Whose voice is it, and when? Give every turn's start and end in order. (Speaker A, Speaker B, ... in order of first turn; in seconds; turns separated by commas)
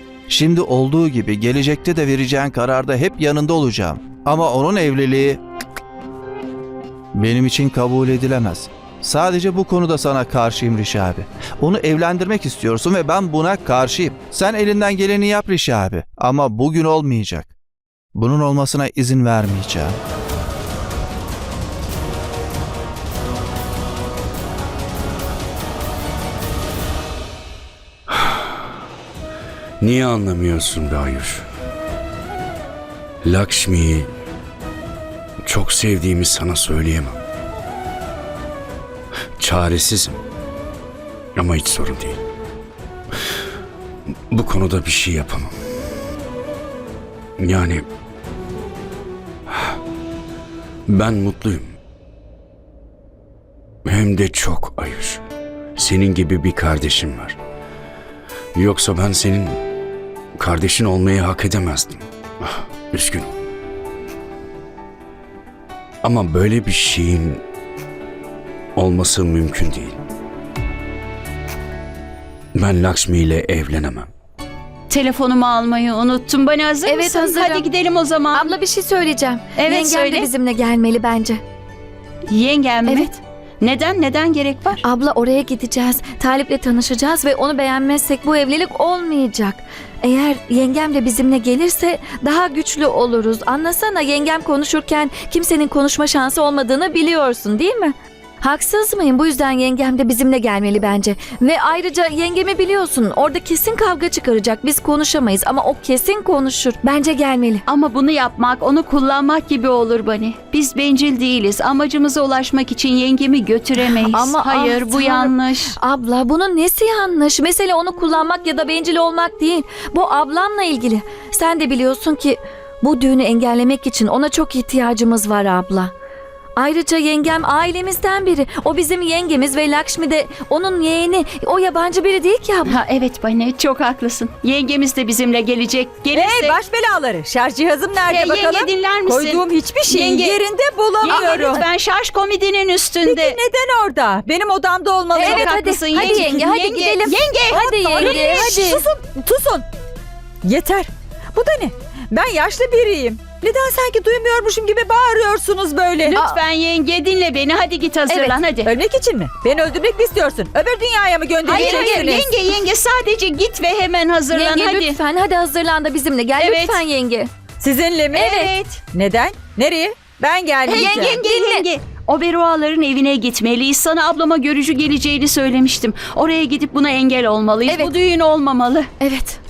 Speaker A: 0.3-5.4, Speaker A: 7.2-17.5, Speaker A: 18.1-20.0, Speaker B: 29.8-31.4, Speaker B: 33.2-34.1, Speaker B: 35.4-37.2, Speaker B: 39.4-40.2, Speaker B: 41.4-42.2, Speaker B: 44.3-45.6, Speaker B: 47.4-47.9, Speaker B: 49.5-49.8, Speaker B: 50.9-51.8, Speaker B: 53.9-55.2, Speaker B: 55.8-57.4, Speaker B: 58.5-59.6, Speaker B: 60.4-63.3, Speaker B: 66.0-67.4, Speaker B: 68.8-70.0, Speaker B: 72.5-74.1, Speaker C: 74.9-78.5, Speaker D: 76.8-77.7, Speaker D: 78.3-81.4, Speaker C: 79.6-80.3, Speaker C: 82.3-84.8, Speaker D: 84.8-107.6, Speaker C: 107.7-115.8, Speaker D: 114.0-125.9, Speaker D: 126.6-132.8, Speaker C: 132.7-136.6, Speaker E: 136.1-141.7, Speaker C: 138.1-140.4, Speaker C: 141.0-143.4, Speaker D: 141.1-141.4, Speaker E: 143.0-145.6, Speaker D: 145.2-148.8, Speaker C: 145.2-148.8, Speaker E: 147.5-149.7, Speaker E: 150.4-156.2, Speaker C: 156.1-158.7, Speaker E: 158.2-162.3, Speaker D: 161.5-162.2, Speaker C: 161.5-165.0, Speaker D: 164.3-167.3, Speaker C: 166.4-166.8, Speaker E: 167.6-171.2, Speaker C: 168.1-168.8, Speaker C: 170.7-178.9, Speaker D: 170.7-171.7, Speaker D: 177.7-177.9, Speaker D: 179.0-179.4